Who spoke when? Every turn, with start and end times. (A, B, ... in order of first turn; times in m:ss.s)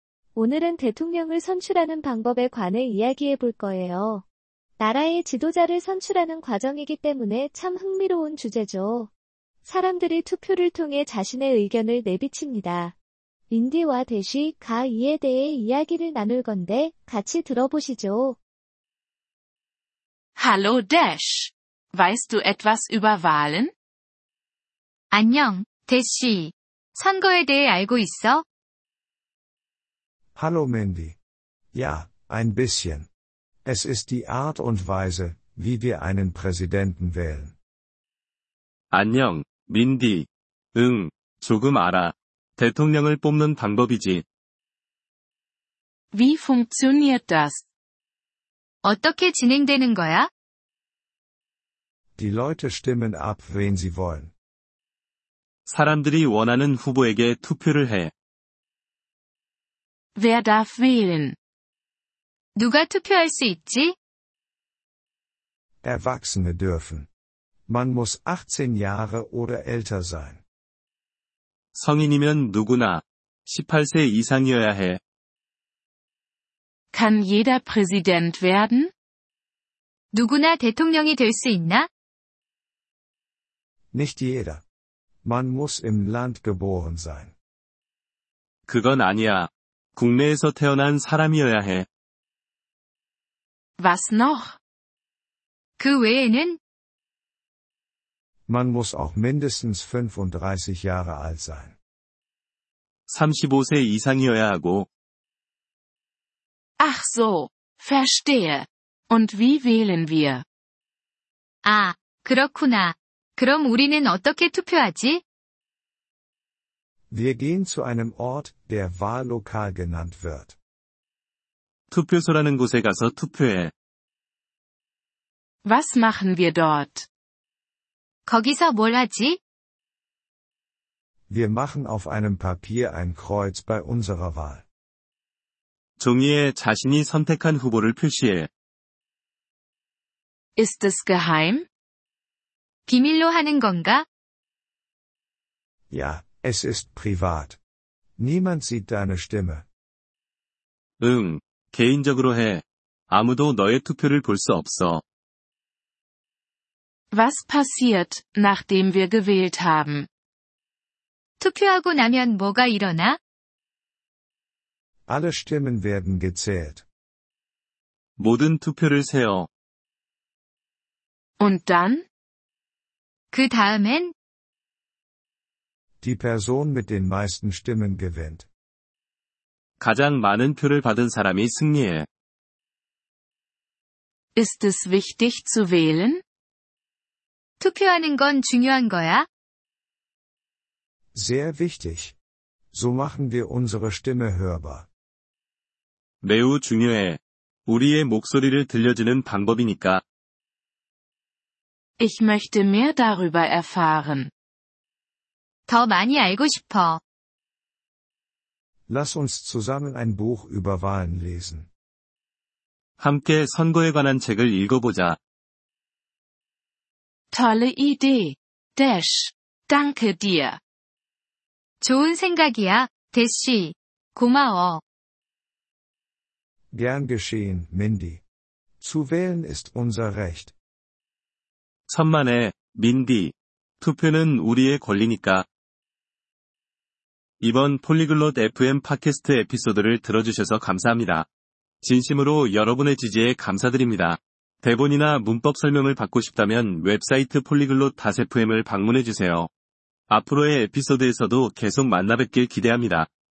0:00.4-0:04.2 A
0:04.8-0:09.1 A
0:09.6-0:12.9 A
0:13.5-0:18.4 A
0:20.4-0:23.7 B
0:25.1-0:28.4 C
0:30.4-0:31.2 D
0:31.7-0:33.1 D
0:33.6-0:37.5 D
0:38.9-0:44.2 E
0:46.1-0:47.6 B
0:48.8-0:50.3 C
0:52.2-0:54.3 D
0:55.6-0:58.1 E
1:00.2-1:01.4 B
1:02.6-1:03.9 C
1:05.8-1:07.1 D
1:07.7-1:10.4 D
1:11.7-1:15.0 E
1:16.9-1:18.9 B
1:20.1-1:21.9 C
1:23.9-1:24.6 D
1:25.2-1:27.3 D
1:28.7-1:31.8 E
1:33.8-1:34.6 B
1:35.8-1:36.6 C
1:38.5-1:41.8 D
1:43.1-1:44.9 E
1:46.8-1:50.4 B
1:51.6-1:55.2 C
1:57.1-2:00.6 D
2:01.9-2:03.7 E
2:05.6-2:07.1 B
2:08.3-2:09.4 C
2:11.3-2:14.6 D
2:16.0-2:18.5 E
2:20.6-2:21.6 B
2:22.9-2:24.0 C
2:25.9-2:27.6 D
2:28.2-2:29.6 D
2:31.0-2:35.0 E
2:37.1-2:40.1 B
2:41.4-2:43.2 C
2:45.1-2:46.8 D
2:48.2-2:49.5 E
2:51.4-2:52.0 B
2:53.3-2:54.1 C
2:56.0-2:58.5 D
2:59.8-3:02.1 E
3:04.3-3:06.2 B
3:07.6-3:09.3 C
3:11.1-3:12.2 D
3:12.7-3:14.9 D
3:16.2-3:20.0 E
3:22.0-3:24.3 B
3:25.7-3:27.0 C
3:28.9-3:31.7 D
3:33.0-3:35.2 E
3:37.3-3:40.6 B
3:41.8-3:44.8 C
3:46.7-3:48.2 D
3:48.8-3:50.5 D
3:51.9-3:55.4 E
3:57.4-4:01.3 E
4:01.8-4:09.5 E
4:10.1-4:13.1 E